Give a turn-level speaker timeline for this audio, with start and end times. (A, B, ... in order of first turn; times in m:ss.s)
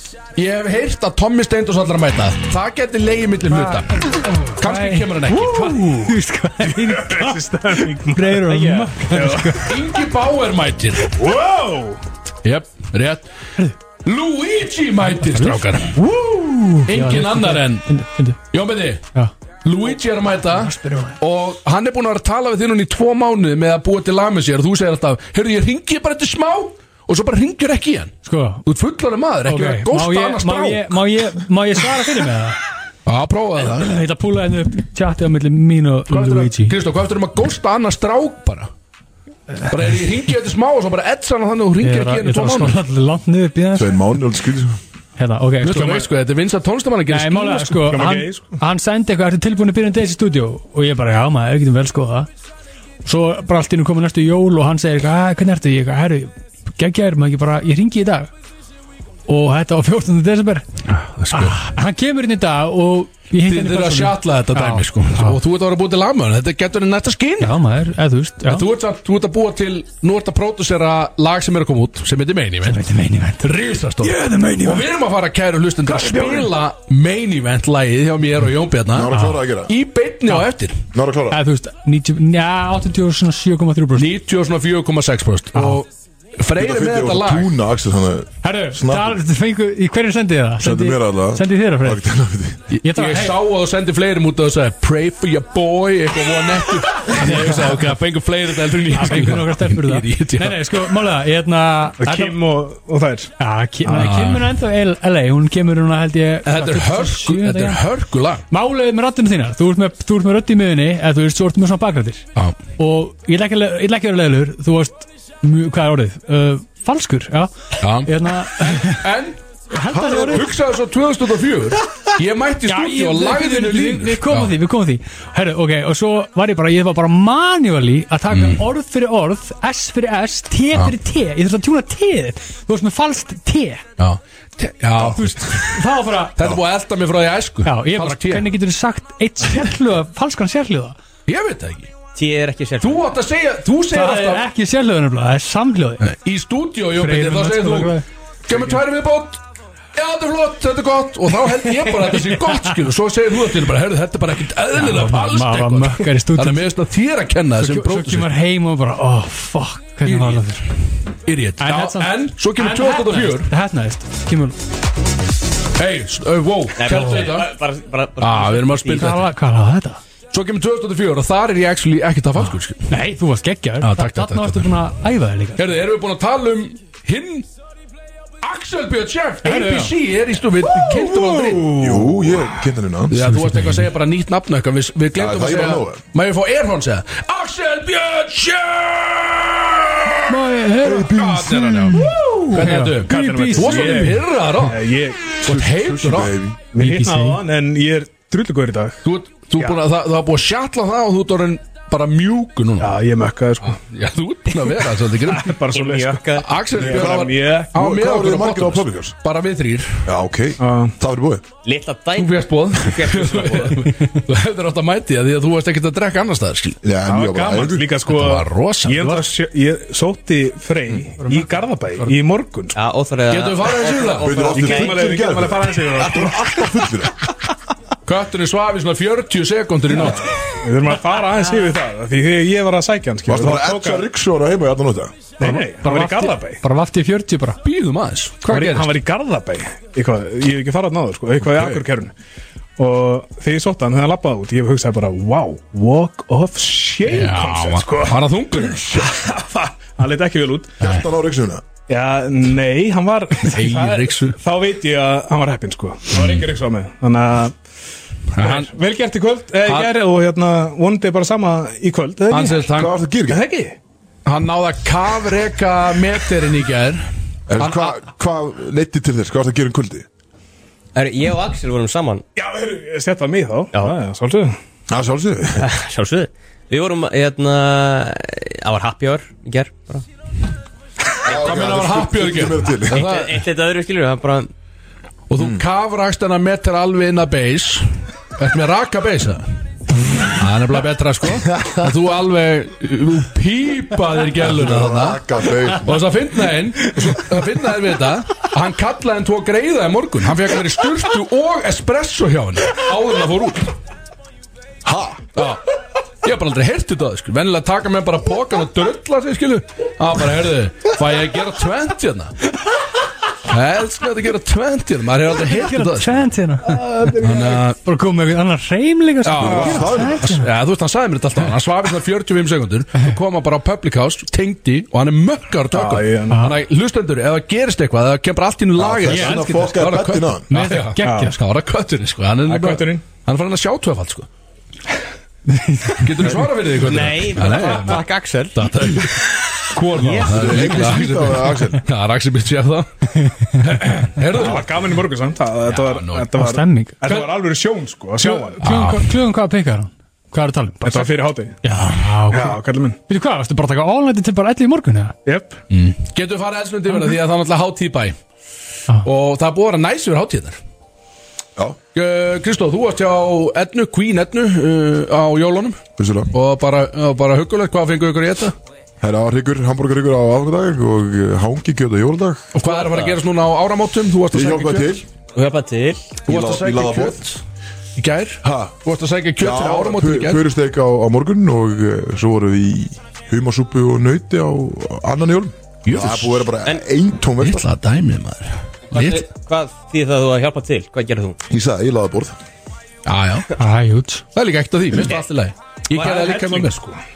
0:00.4-0:06.0 A
0:03.5-0:09.8 B
0:06.6-0:09.8 C
0:09.6-0:11.1 A
0:11.2-0:12.0 C
0:12.4-0:13.3 A
0:14.0-0:16.0 A
0:15.3-0:18.4 B
0:16.9-0:17.9 A
0:18.5-0:19.0 A
0:19.6-0:28.1 A
0:20.4-0:21.2 B
0:28.2-0:28.6 B
0:28.6-0:31.0 A
0:29.5-0:32.6 B
0:33.1-0:34.0 A
0:33.6-0:36.8 B
0:36.1-0:38.7 A
0:39.7-0:42.8 A
0:41.8-0:44.0 B
0:43.7-0:44.8 D
0:45.2-0:46.1 B
0:45.6-0:47.9 A
0:47.1-0:52.3 B
0:47.8-0:48.6 C
0:53.0-0:58.3 B
0:59.3-1:00.7 B
1:00.9-1:01.6 A
1:01.3-1:05.4 B
1:03.4-1:07.6 A
1:07.4-1:08.7 B
1:08.5-1:12.8 A
1:12.7-1:13.5 B
1:13.4-1:19.1 A
1:14.0-1:14.8 B
1:15.9-1:16.4 B
1:18.9-1:19.7 D
1:19.1-1:19.4 B
1:19.6-1:20.8 A
1:20.9-1:21.4 D
1:21.3-1:24.1 B
1:24.0-1:25.9 A
1:25.5-1:25.8 B
1:26.4-1:27.5 A
1:26.6-1:29.2 D
1:28.4-1:32.0 B
1:30.6-1:32.6 D
1:32.7-1:40.9 A
1:32.8-1:33.4 B
1:36.9-1:37.8 B
1:38.9-1:42.4 B
1:42.0-1:43.3 C
1:43.4-1:47.8 B
1:43.8-1:44.3 C
1:44.0-1:44.4 A
1:46.5-1:48.4 A
1:48.5-1:52.3 B
1:52.8-1:57.5 B
1:57.8-1:59.4 A
1:58.0-1:59.1 B
1:59.7-2:00.5 B
1:59.9-2:00.5 D
2:00.1-2:04.5 A
2:02.7-2:13.8 B
2:08.3-2:08.6 A
2:14.0-2:15.8 A
2:15.1-2:16.4 B
2:16.4-2:18.5 A
2:17.6-2:21.0 B
2:21.3-2:21.9 A
2:22.2-2:23.1 E
2:22.8-2:24.4 A
2:23.9-2:26.0 B
2:26.0-2:29.4 A
2:27.0-2:28.0 B
2:30.0-2:38.3 A
2:31.9-2:32.5 B
2:34.8-2:36.6 B
2:37.6-2:40.7 B
2:40.0-2:40.4 A
2:41.2-2:43.5 A
2:41.6-2:44.6 B
2:45.8-2:47.5 A
2:46.8-2:49.1 E
2:48.2-2:49.3 A
2:48.9-2:50.0 B
2:50.3-2:52.9 A
2:52.9-2:55.6 B
2:53.8-2:54.7 A
2:55.6-2:57.5 A
2:58.4-3:01.8 A
2:59.4-2:59.9 B
3:01.0-3:02.3 C
3:01.8-3:03.2 D
3:03.1-3:10.2 A
3:03.2-3:03.9 B
3:05.1-3:06.0 D
3:10.3-3:14.1 B
3:10.8-3:11.9 D
3:11.1-3:14.8 A
3:12.1-3:15.4 C
3:15.4-3:16.3 A
3:15.4-3:16.6 D
3:16.7-3:19.0 C
3:16.8-3:17.4 B
3:19.0-3:23.0 A
3:22.8-3:23.8 C
3:23.7-3:25.6 A
3:25.3-3:26.2 C
3:25.7-3:26.6 E
3:26.4-3:30.0 A
3:26.8-3:27.7 C
3:26.8-3:29.2 D
3:30.1-3:31.4 D
3:30.6-3:31.0 C
3:31.6-3:34.0 E
3:32.2-3:36.8 A
3:36.8-3:37.9 D
3:37.1-3:42.8 C
3:38.1-3:39.2 A
3:41.2-3:41.5 B
3:42.8-3:45.2 E
3:43.3-3:44.3 A
3:44.2-3:47.2 D
3:44.5-3:46.6 C
3:48.1-3:50.4 A
3:50.1-3:54.1 C
3:53.3-3:55.3 D
3:55.4-3:56.6 C
3:55.4-3:57.6 B
3:57.6-3:59.0 A
3:58.5-4:02.1 C
4:01.4-4:01.8 D
4:02.8-4:10.8 C
4:07.0-4:09.1 A
4:10.8-4:11.6 D
4:11.9-4:17.6 C
4:13.5-4:14.4 A
4:16.1-4:16.4 A
4:18.4-4:18.7 A
4:18.4-4:22.7 C
4:19.6-4:19.9 A
4:22.3-4:22.9 A
4:22.8-4:23.5 D
4:23.3-4:23.8 C
4:24.2-4:28.0 A
4:27.5-4:30.1 D
4:31.0-4:32.2 E
4:32.4-4:34.6 C
4:34.9-4:35.7 D
4:35.6-4:40.0 E
4:41.2-4:43.1 D
4:41.3-4:43.4 A
4:42.9-4:44.5 E
4:45.3-4:49.4 A
4:45.4-4:45.6 D
4:50.3-4:55.2 A
4:54.4-4:56.0 D
4:55.8-5:03.7 A
5:04.8-5:05.3 D
5:05.4-5:05.6 A
5:06.2-5:12.3 A
5:13.5-5:16.3 A
5:15.4-5:17.2 B
5:16.7-5:17.6 C
5:17.2-5:17.8 A
5:17.8-5:20.5 B
5:19.2-5:34.3 A
5:19.4-5:20.3 D
5:25.7-5:26.5 C
5:26.3-5:26.6 B
5:28.8-5:30.5 D
5:29.1-5:29.7 B
5:30.5-5:31.4 B
5:31.0-5:31.3 C
5:32.5-5:33.1 C
5:35.5-5:36.0 B
5:36.0-5:42.9 A
5:36.8-5:38.9 E
5:40.1-5:41.8 D
5:43.6-5:44.8 A
5:43.9-5:48.6 C
5:45.7-5:46.3 A
5:46.4-5:47.0 B
5:48.2-5:55.2 B
5:48.6-5:49.0 A
5:50.8-5:51.6 C
5:52.3-5:53.0 C
5:55.2-5:55.6 C
5:55.7-5:58.2 A
5:59.0-6:00.6 A
6:02.0-6:05.8 A
6:06.0-6:06.3 D
6:06.3-6:08.5 A
6:09.0-6:12.5 D
6:12.5-6:15.0 A
6:12.7-6:13.2 E
6:14.3-6:15.0 D
6:15.3-6:16.2 E
6:16.3-6:17.2 D
6:16.3-6:17.4 A
6:18.0-6:20.4 A
6:18.4-6:18.8 D
6:19.4-6:27.7 D
6:25.8-6:26.5 A
6:27.4-6:29.2 A
6:28.9-6:31.4 E
6:31.5-6:32.4 D
6:33.1-6:33.5 A
6:33.6-6:34.2 B
6:34.4-6:36.8 A
6:36.0-6:37.0 C